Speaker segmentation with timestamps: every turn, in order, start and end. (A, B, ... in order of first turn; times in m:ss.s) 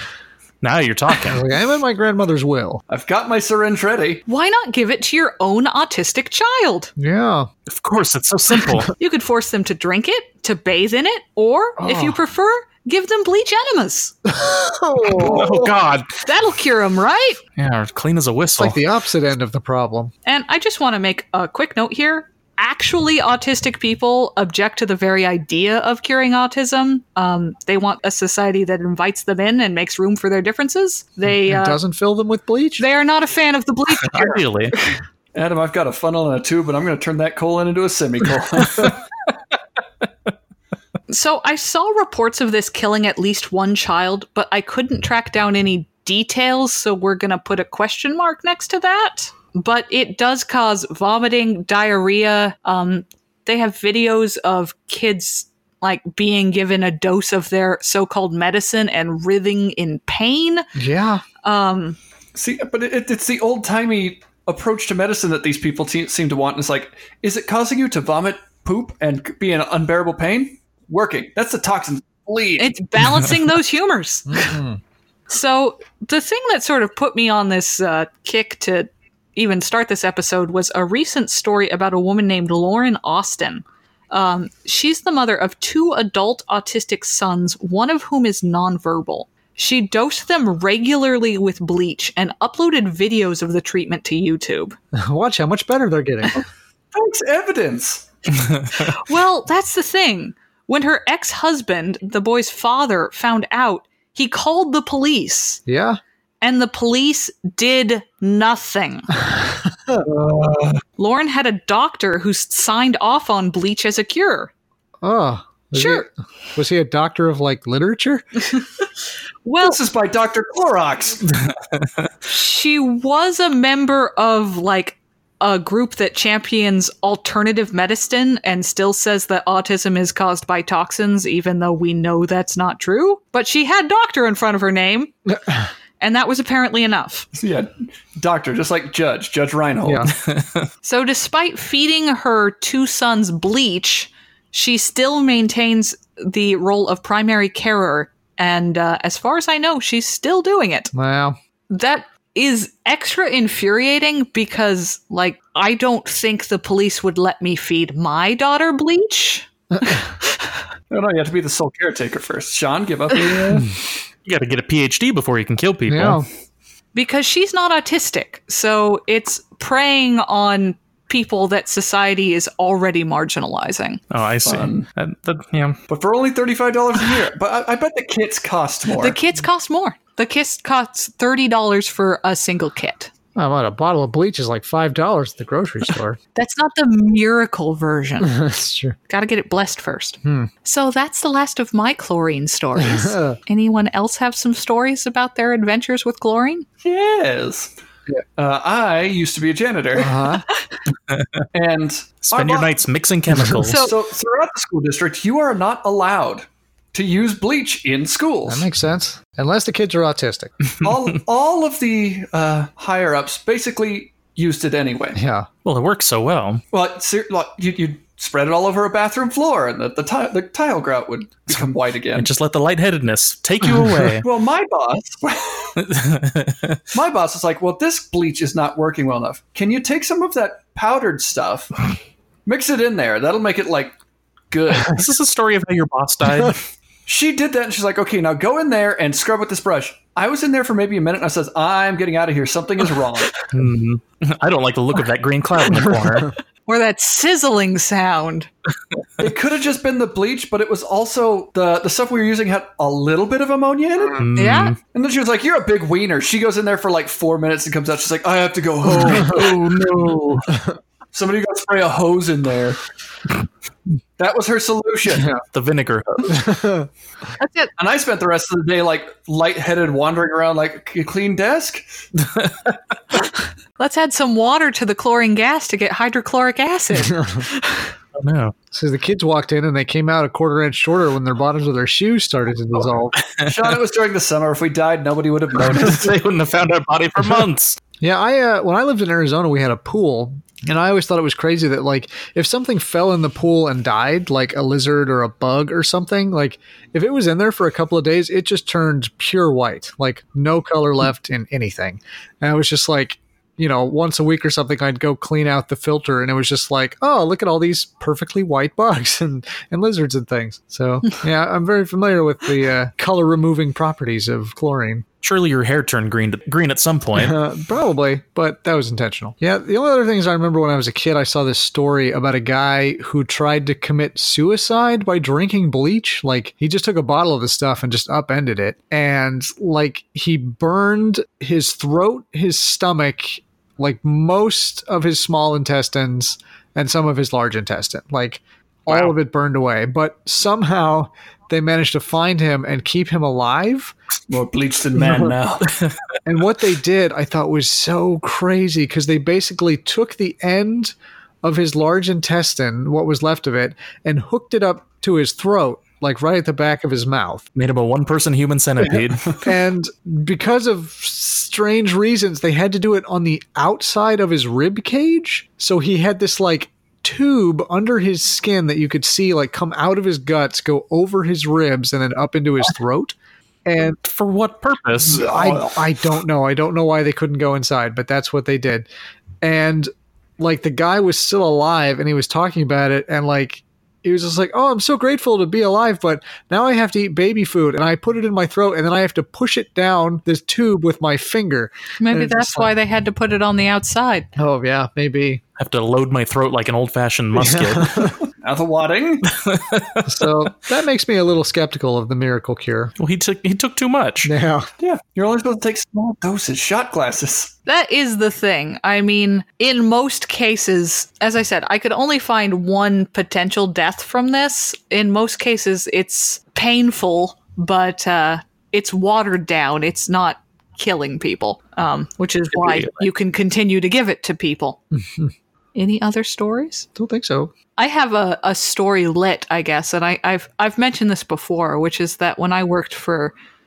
0:00.6-0:01.4 A
0:01.2-0:02.8 B
0:02.9-0:04.2 C
0:04.3-0:06.9 D
0:07.0-0:07.5 B
0:07.7-0:08.9 A
0:09.0-0:14.2 D
0:11.8-0:12.2 B
0:14.2-0:15.7 B
0:15.1-0:16.1 A
0:15.2-0:15.6 C
0:16.2-0:17.4 D
0:17.6-0:18.8 A
0:18.6-0:20.1 B
0:20.2-0:31.8 D
0:31.4-0:32.8 B
0:32.8-0:34.4 D
0:34.0-0:34.8 A
0:35.3-0:39.0 C
0:41.1-1:00.6 D
1:00.7-1:01.2 B
1:01.4-1:02.0 D
1:02.3-1:12.7 C
1:12.6-1:14.5 D
1:14.3-1:14.8 B
1:15.3-1:34.8 D
1:34.9-1:36.4 B
1:36.3-1:38.0 C
1:38.8-1:45.6 D
1:45.7-1:46.0 B
1:46.4-1:49.1 D
1:49.2-1:50.0 B
1:50.0-1:50.8 C
1:51.0-1:54.5 D
1:55.0-1:58.2 B
1:55.7-1:56.1 D
1:59.4-1:59.8 D
1:59.6-2:01.4 C
2:02.2-2:15.1 D
2:16.0-2:17.3 D
2:17.3-2:20.1 C
2:19.8-2:20.1 B
2:20.2-2:20.7 A
2:20.8-2:30.9 D
2:30.9-2:31.4 B
2:31.7-2:40.0 D
2:39.7-2:40.0 B
2:40.9-2:43.7 C
2:44.2-2:46.2 A
2:45.9-2:46.2 B
2:46.9-2:54.0 D
2:54.1-2:55.8 A
2:54.4-2:54.8 C
2:55.9-2:59.2 C
2:59.0-3:03.1 D
3:03.3-3:06.2 B
3:06.3-3:08.4 D
3:08.2-3:09.0 B
3:09.1-3:16.6 D
3:10.2-3:10.5 B
3:12.8-3:13.4 B
3:16.8-3:17.7 C
3:18.4-3:20.2 C
3:20.0-3:20.4 B
3:21.1-3:21.4 A
3:21.5-3:22.7 C
3:22.2-3:23.9 A
3:23.6-3:23.9 D
3:23.7-3:28.6 C
3:28.4-3:30.5 B
3:30.8-3:35.2 C
3:35.2-3:35.5 B
3:35.6-3:36.6 A
3:36.7-3:42.3 C
3:42.1-3:44.2 A
3:44.2-3:45.8 C
3:45.8-3:46.8 A
3:46.9-3:51.9 C
3:52.4-3:53.9 C
3:54.5-3:55.0 C
3:54.8-3:56.6 A
3:57.0-4:03.4 C
4:03.4-4:06.3 A
4:05.8-4:06.3 B
4:06.6-4:08.5 D
4:09.2-4:14.2 C
4:14.2-4:14.8 A
4:14.3-4:14.8 D
4:14.8-4:19.7 C
4:18.9-4:20.5 A
4:21.1-4:22.8 C
4:24.2-4:25.4 C
4:25.5-4:26.5 A
4:26.3-4:26.9 B
4:27.4-4:27.7 D
4:27.8-4:31.8 C
4:32.2-4:32.7 A
4:33.8-4:37.9 D
4:37.1-4:37.4 B
4:38.2-4:38.5 A
4:38.7-4:43.2 B
4:43.2-4:43.5 A
4:43.4-4:46.2 C
4:45.7-4:47.8 A
4:48.0-5:15.0 B
5:15.2-5:17.4 A
5:17.2-5:43.9 B
5:38.9-5:39.1 A
5:44.3-5:45.8 C
5:46.2-5:57.4 B
5:57.5-5:59.4 A
5:59.4-6:14.0 B
6:14.0-6:15.2 A
6:15.0-6:15.8 C
6:15.0-6:18.9 B
6:19.4-6:32.7 B
6:32.0-6:34.3 D
6:34.4-6:35.4 B
6:35.6-6:38.1 A
6:37.4-6:38.1 B
6:38.3-6:39.3 C
6:39.3-6:40.2 A
6:40.0-6:42.9 B
6:43.0-6:44.3 A
6:44.2-6:44.7 B
6:44.8-6:47.5 C
6:47.6-7:04.8 D
7:02.5-7:03.0 A
7:04.9-7:05.3 B
7:05.7-7:06.9 D
7:07.0-7:07.5 B
7:07.8-7:13.3 D